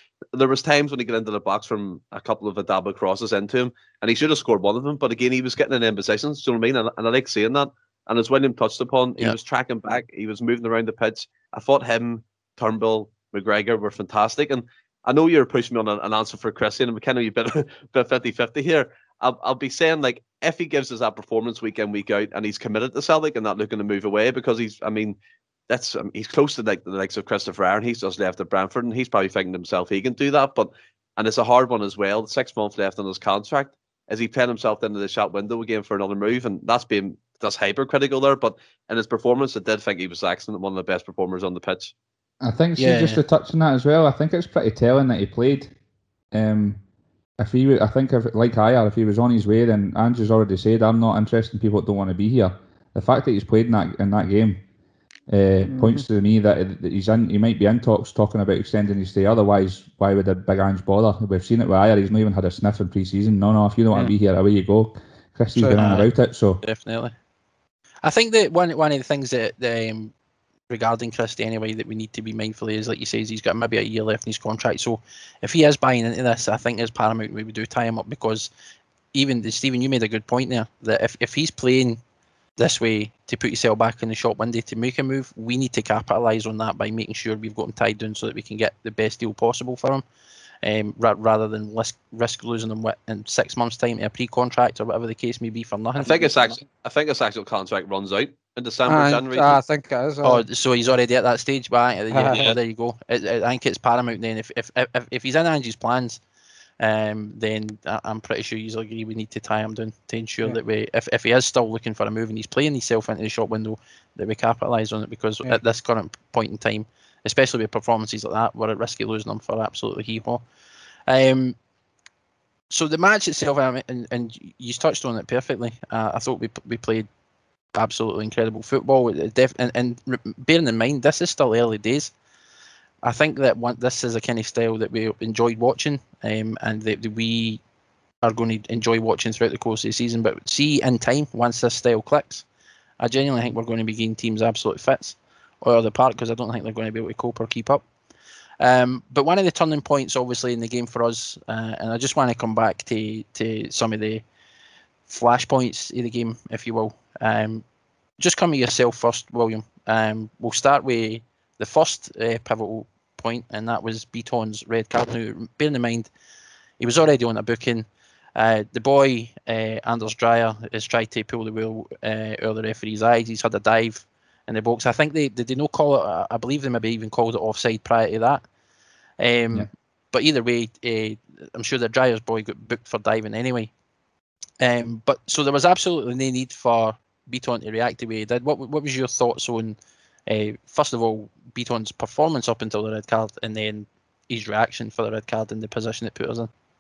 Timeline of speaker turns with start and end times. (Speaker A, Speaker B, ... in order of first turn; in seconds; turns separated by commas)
Speaker A: 0.3-25.2, Speaker A: 25.7-41.9, Speaker B: 42.4-45.7, Speaker C: 42.8-43.2, Speaker B: 46.3-46.8, Speaker B: 47.4-54.6, Speaker B: 55.3-66.6, Speaker D: 55.7-56.0, Speaker D: 65.6-65.9, Speaker C: 65.8-66.1, Speaker C: 66.6-67.1, Speaker C: 68.0-70.1, Speaker C: 70.7-78.5, Speaker C: 79.1-82.0, Speaker C: 82.6-90.0, Speaker C: 90.6-96.6, Speaker A: 96.0-99.6, Speaker D: 98.9-100.4, Speaker C: 100.2-106.2, Speaker D: 102.1-102.5, Speaker C: 106.8-120.4, Speaker C: 121.1-121.6, Speaker C: 122.7-127.1, Speaker C: 127.7-132.1, Speaker C: 133.0-137.6, Speaker C: 138.2-142.4, Speaker C: 143.0-147.8, Speaker C: 148.6-154.2, Speaker C: 155.1-157.6, Speaker C: 158.2-166.1, Speaker C: 166.8-178.4, Speaker C: 179.2-183.7, Speaker C: 184.6-196.5